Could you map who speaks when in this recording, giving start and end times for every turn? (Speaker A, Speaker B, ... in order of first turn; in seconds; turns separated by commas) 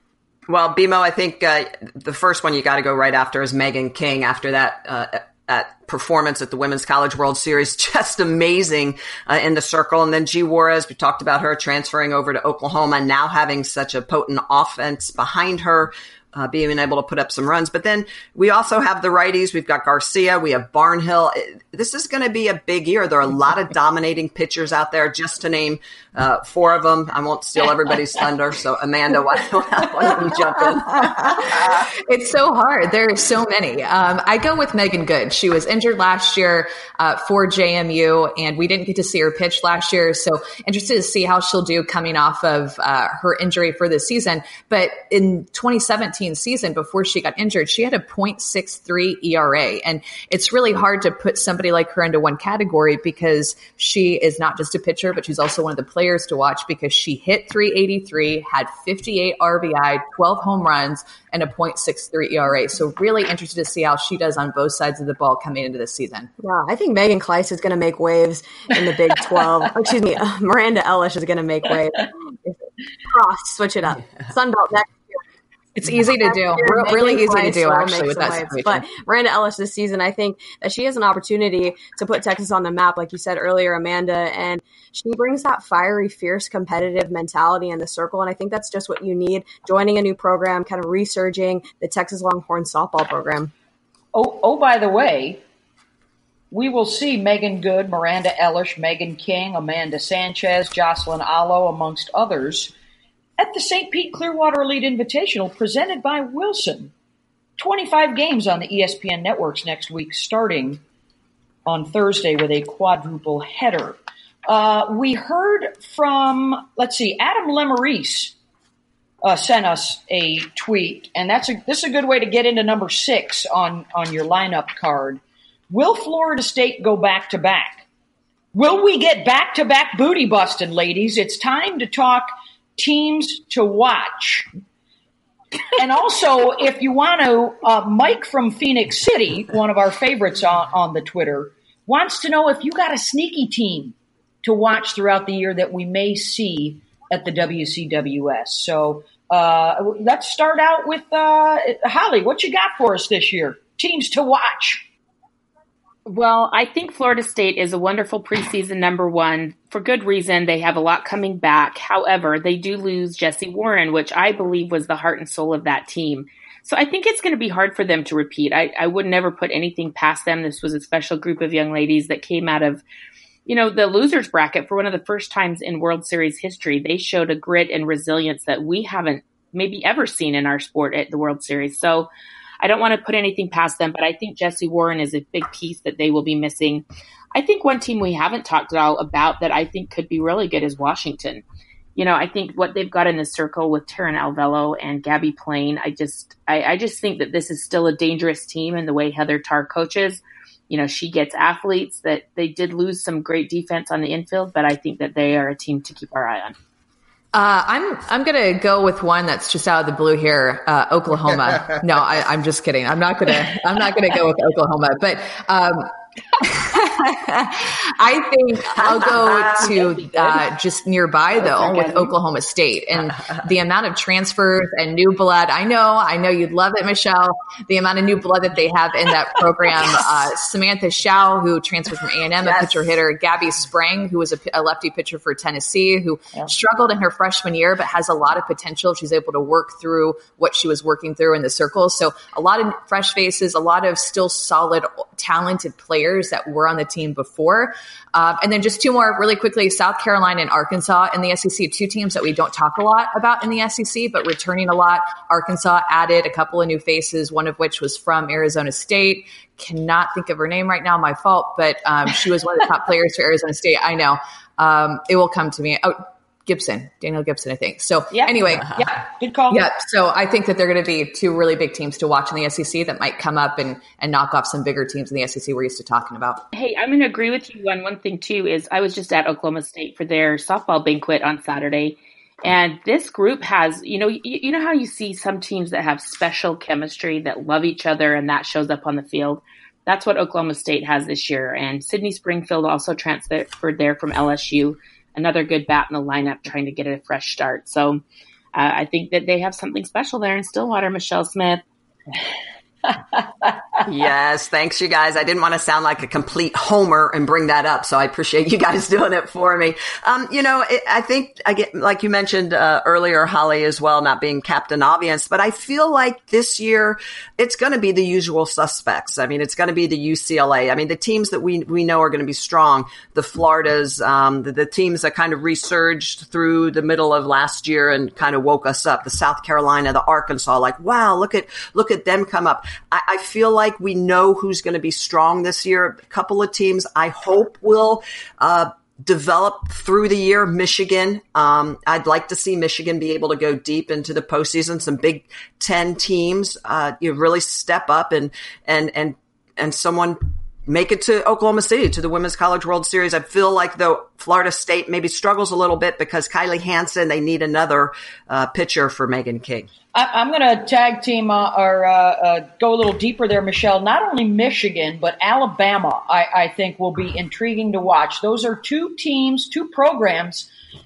Speaker A: 0.5-31.6, Speaker B: 30.8-66.3, Speaker C: 66.4-75.2, Speaker B: 75.8-78.8, Speaker C: 76.2-93.5, Speaker D: 94.1-95.4, Speaker D: 96.5-102.7, Speaker D: 103.4-106.9, Speaker D: 107.6-110.8, Speaker D: 111.7-118.3, Speaker D: 119.2-127.8, Speaker D: 128.5-134.5, Speaker D: 135.8-154.8, Speaker E: 156.1-172.8, Speaker E: 173.4-182.1, Speaker E: 182.6-191.4, Speaker E: 191.9-206.6, Speaker B: 207.3-268.8, Speaker A: 218.8-219.6, Speaker E: 219.6-220.4, Speaker E: 221.4-222.1, Speaker A: 232.4-232.9, Speaker D: 268.1-269.6, Speaker B: 269.5-276.4, Speaker E: 276.5-298.0, Speaker E: 298.5-301.6, Speaker D: 302.9-303.5, Speaker A: 303.9-359.7, Speaker D: 359.9-370.5